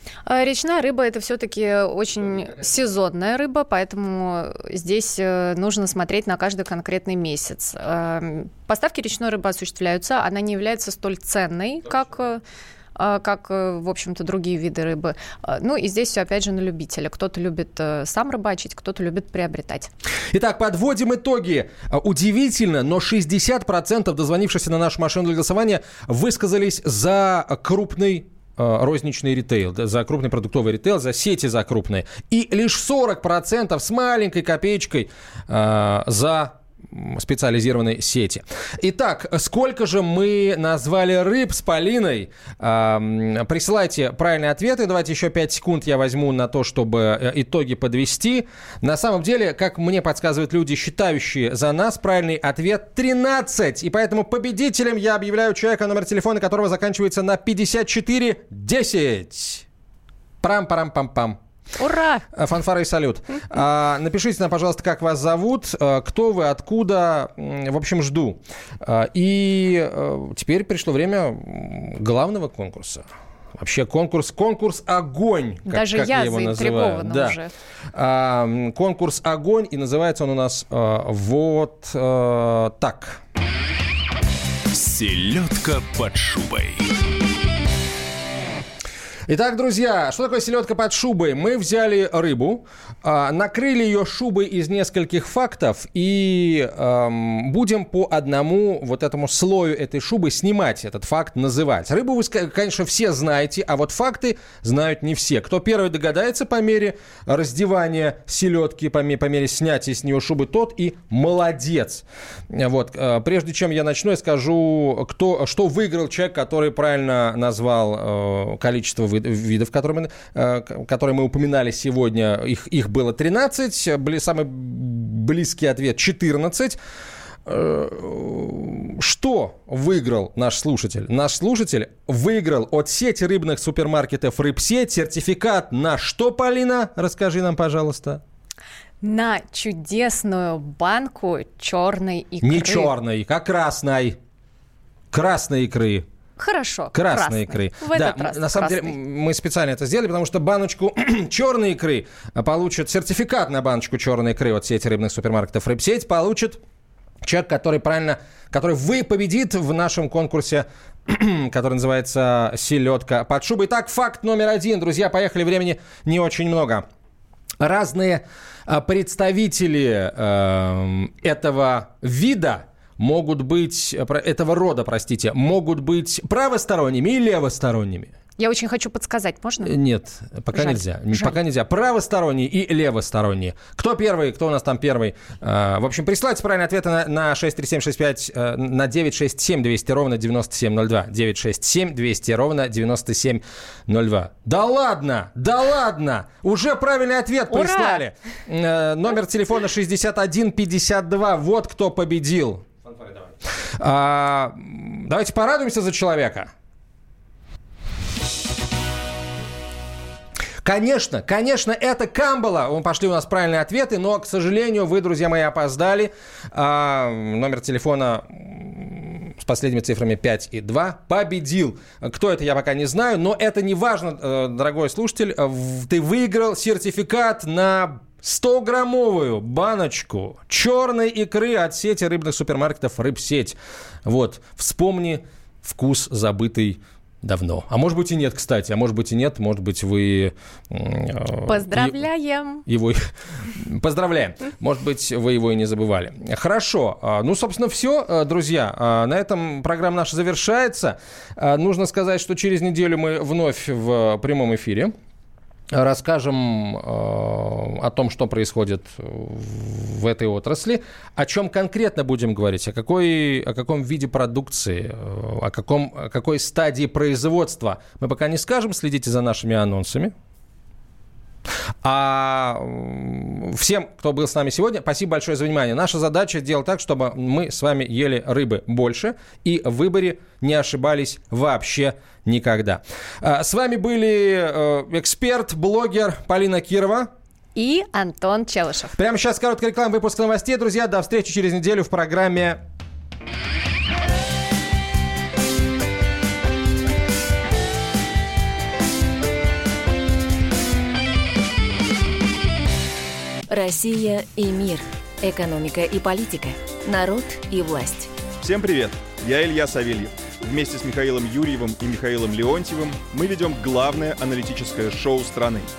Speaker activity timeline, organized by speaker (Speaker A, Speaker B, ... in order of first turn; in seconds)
Speaker A: 0.3-12.4, 12.9-19.9, 61.8-62.2, 75.7-77.5, 139.0-142.9, 146.4-148.9, 178.4-179.8, 180.5-181.4, 197.5-198.0, 241.4-242.7, 287.5-288.9
Speaker B: 20.3-59.6, 60.4-61.4, 62.3-77.4, 77.9-83.2, 89.3-126.8, 127.5-138.2, 142.4-144.2, 145.1-146.0, 146.9-156.6, 157.2-166.8, 167.6-178.1, 179.6-206.5, 210.6-242.0, 242.7-254.9, 255.7-270.1, 271.8-287.1, 289.0-292.6
Speaker C: 84.7-86.9
Speaker D: 303.5-308.1
Speaker E: 308.4-315.7